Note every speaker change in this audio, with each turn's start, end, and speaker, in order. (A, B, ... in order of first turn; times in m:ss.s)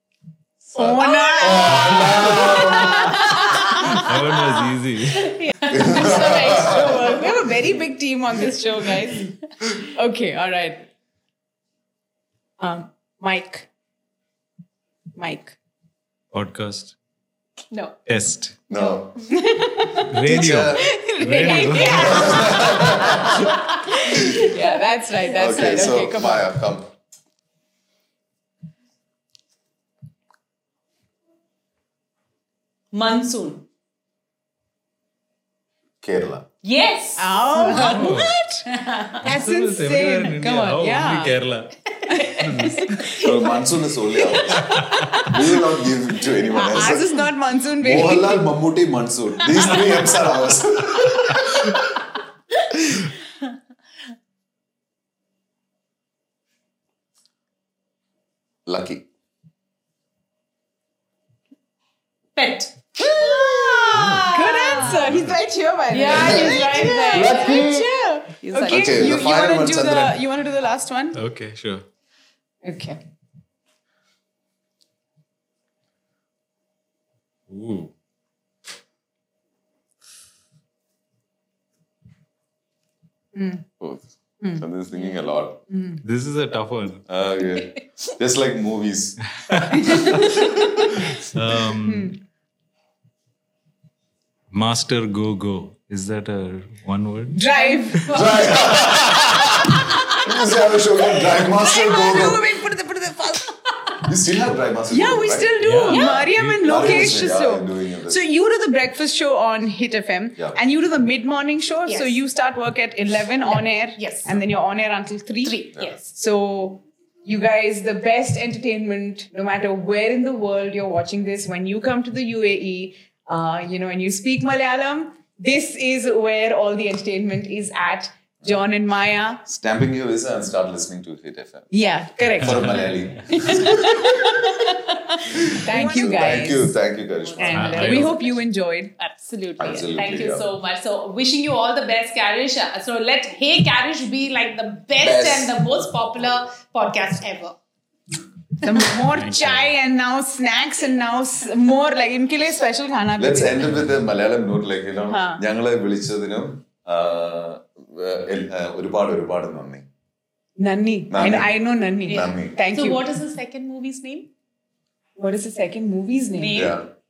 0:00.6-0:03.4 A
0:00.7-0:04.0 B
0:01.0-0:04.5 C
0:03.8-0:05.4 D
0:05.2-0:06.5 C
0:05.7-0:07.4 A
0:05.7-0:10.9 B
0:12.6-0:13.7 B
0:15.2-0:15.6 B
0:16.3-0:16.9 D
0:17.7-0:18.0 C
0:18.1-0:18.6 D
0:18.7-0:19.3 A
0:18.7-0:19.2 C
0:19.3-0:20.2 B
0:20.0-0:22.5 D
0:20.2-0:20.9 A
0:20.8-0:26.5 B
0:21.4-0:23.4 C
0:21.8-0:24.4 A
0:25.3-0:26.9 A
0:32.9-0:33.7 C
0:36.0-0:36.5 A
0:36.6-0:39.2 C
0:37.2-0:41.3 B
0:37.7-0:38.3 D
0:39.2-0:41.7 D
0:41.9-0:45.3 C
0:42.1-0:43.2 B
0:42.4-0:42.9 D
0:43.2-0:47.2 A
0:44.6-0:45.1 D
0:46.5-0:48.4 B
0:47.8-0:52.0 A
0:58.6-0:59.0 A
1:02.4-1:05.0 C
1:03.0-1:11.2 B
1:03.9-1:05.4 D
1:05.9-1:07.8 C
1:06.0-1:07.9 A
1:08.4-1:09.2 C
1:08.7-1:10.2 A
1:11.1-1:11.8 D
1:12.6-1:13.0 B
1:17.5-1:17.9 D
1:23.3-1:23.6 B
1:23.8-1:25.6 A
1:25.7-1:26.0 B
1:26.0-1:27.0 D
1:27.1-1:31.2 A
1:29.5-1:30.4 D
1:29.8-1:30.2 B
1:31.0-1:32.2 D
1:31.8-1:32.2 B
1:34.5-1:37.4 D
1:37.3-1:38.3 B
1:37.5-1:39.0 C
1:38.1-1:42.5 A
1:41.4-1:43.5 B
1:44.0-1:48.2 A
1:44.9-2:09.4 B
1:45.6-1:47.2 D
1:45.9-1:46.3 C
1:51.9-1:52.2 C
1:53.5-1:54.4 C
1:55.4-1:56.0 C
2:09.4-2:14.5 A
2:11.7-2:16.7 B
2:12.4-2:12.8 D
2:15.3-2:18.1 A
2:15.7-2:16.2 C
2:17.2-2:18.3 C
2:17.4-2:18.9 B
2:17.5-2:18.1 D
2:19.0-2:27.5 C
2:19.6-2:20.5 A
2:25.0-2:25.6 A
2:28.6-2:33.6 B
2:28.9-2:29.7 D
2:33.2-2:39.8 A
2:35.1-2:35.4 B
2:40.6-2:43.1 B
2:41.1-2:41.5 A
2:42.0-2:42.5 A
2:42.1-2:44.3 C
2:45.2-2:46.7 B
2:46.4-2:46.8 C
2:46.5-2:46.8 A